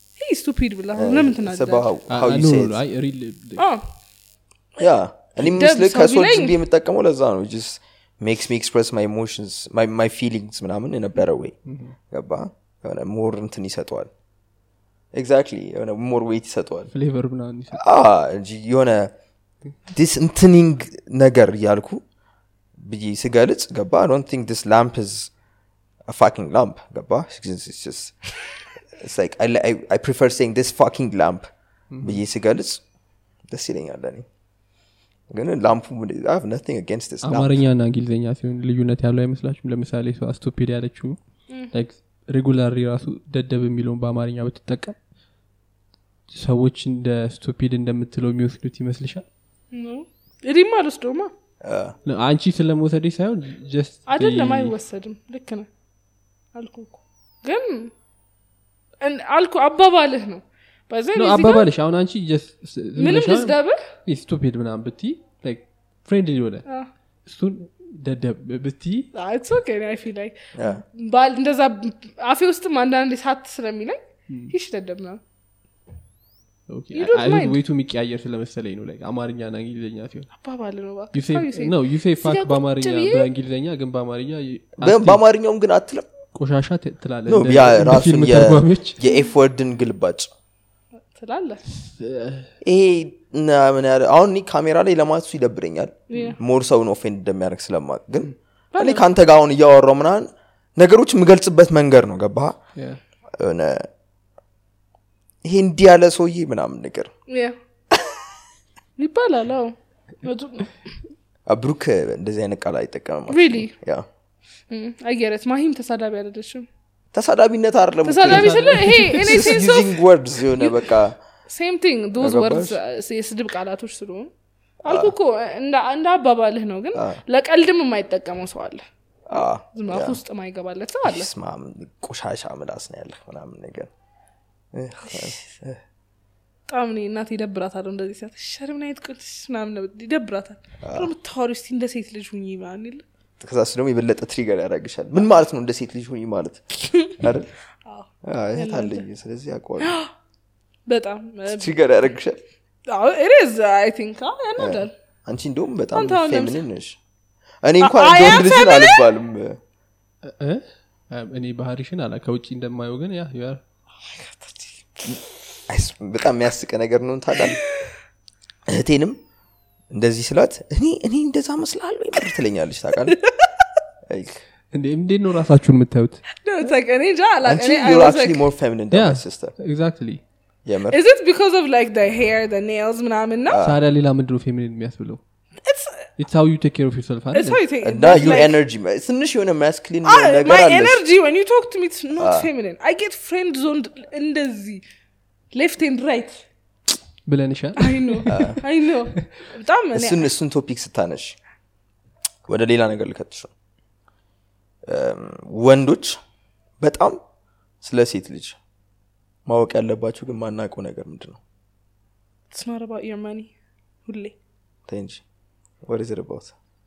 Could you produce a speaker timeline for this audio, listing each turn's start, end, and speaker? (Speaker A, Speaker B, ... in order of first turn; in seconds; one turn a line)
Speaker A: 0.2-1.9
Speaker B: 0.9-2.8
Speaker C: 2.1-3.6
Speaker A: 3.6-3.9
Speaker B: 4.8-11.6
Speaker A: 5.4-6.6
Speaker C: 11.7-11.9
Speaker B: 12.1-14.1
Speaker B: 15.1-16.9
Speaker C: 16.9-17.8
Speaker B: 17.7-19.1
Speaker B: 19.9-22.0
Speaker B: 22.8-25.3
Speaker B: 26.1-28.2
Speaker B: 29.0-31.5
Speaker C: 31.9-32.2
Speaker B: 32.0-32.8
Speaker B: 33.5-34.3
Speaker B: 35.3-37.6
Speaker C: 37.2-41.2
Speaker C: 41.7-45.0
Speaker C: 46.3-49.2
Speaker A: 49.7-51.3
Speaker B: 51.6-52.0
Speaker C: 52.0-54.8
Speaker A: 54.1-55.7
Speaker A: 56.5-57.9
Speaker A: 59.0-61.7
Speaker C: 61.1-66.7
Speaker A: 63.0-63.8
Speaker C: 67.2-69.1
Speaker A: 69.1-75.2
Speaker B: 70.5-70.8
Speaker C: 76.7-80.3
Speaker A: 76.9-77.6
Speaker A: 80.4-83.3
Speaker C: 81.1-85.2
Speaker B: 84.8-86.1
Speaker C: 86.3-89.0
Speaker B: 87.3-90.3
Speaker A: 91.1-91.6
Speaker C: 91.8-92.5
Speaker B: 92.6-102.6
Speaker A: 96.1-96.4
Speaker A: 98.7-99.0
Speaker B: 103.3-103.9
Speaker B: 105.4-107.1
Speaker A: 107.3-107.6
Speaker B: 107.9-108.2
Speaker A: 109.0-110.9
Speaker B: 111.5-114.1
Speaker A: 113.3-113.7
Speaker A: 114.7-116.7
Speaker B: 117.1-121.2
Speaker A: 118.0-120.0
Speaker C: 118.2-119.5
Speaker A: 120.6-120.9
Speaker A: 121.5-124.3
Speaker B: 122.2-122.8
Speaker A: 124.8-128.8
Speaker B: 124.9-125.1
Speaker B: 129.3-130.2
Speaker A: 129.4-131.3
Speaker B: 131.1-133.9
Speaker B: 134.7-135.8
Speaker A: 136.7-143.0
Speaker B: 140.8-141.1
Speaker B: 143.4-147.5
Speaker A: 147.9-149.1
Speaker B: 148.2-150.0
Speaker A: 149.8-150.1
Speaker A: 150.9-151.8
Speaker B: 151.5-152.4
Speaker A: 152.9-154.9
Speaker B: 154.6-157.0
Speaker A: 155.9-156.6
Speaker B: 157.6-159.6
Speaker A: 157.8-159.1
Speaker C: 160.2-163.6
Speaker A: 164.0-165.2
Speaker B: 165.7-167.6
Speaker A: 167.4-167.9
Speaker B: 168.7-169.2
Speaker B: 169.9-173.2
Speaker A: 173.1-173.5
Speaker B: 174.1-174.4
Speaker C: 174.7-176.2
Speaker A: 176.4-178.5
Speaker B: 177.4-179.6
Speaker C: 178.9-180.2
Speaker B: 180.7-181.0
Speaker A: 180.9-183.6
Speaker B: 183.5-183.8
Speaker C: 183.6-185.2
Speaker A: 185.6-186.1
Speaker C: 186.2-188.4
Speaker A: 187.3-188.6
Speaker B: 187.8-191.0
Speaker A: 190.0-194.8
Speaker B: 192.2-192.5
Speaker A: 195.5-196.4
Speaker C: 197.3-198.5
Speaker A: 197.8-200.3
Speaker B: 198.3-198.6
Speaker B: 199.9-201.4
Speaker B: 202.5-203.5
Speaker B: 204.9-206.2
Speaker B: 206.8-207.2
Speaker B: 207.8-208.6
Speaker B: 209.5-211.4
Speaker A: 212.5-213.5
Speaker A: 214.1-214.3
Speaker B: 214.9-215.2
Speaker B: 215.8-216.5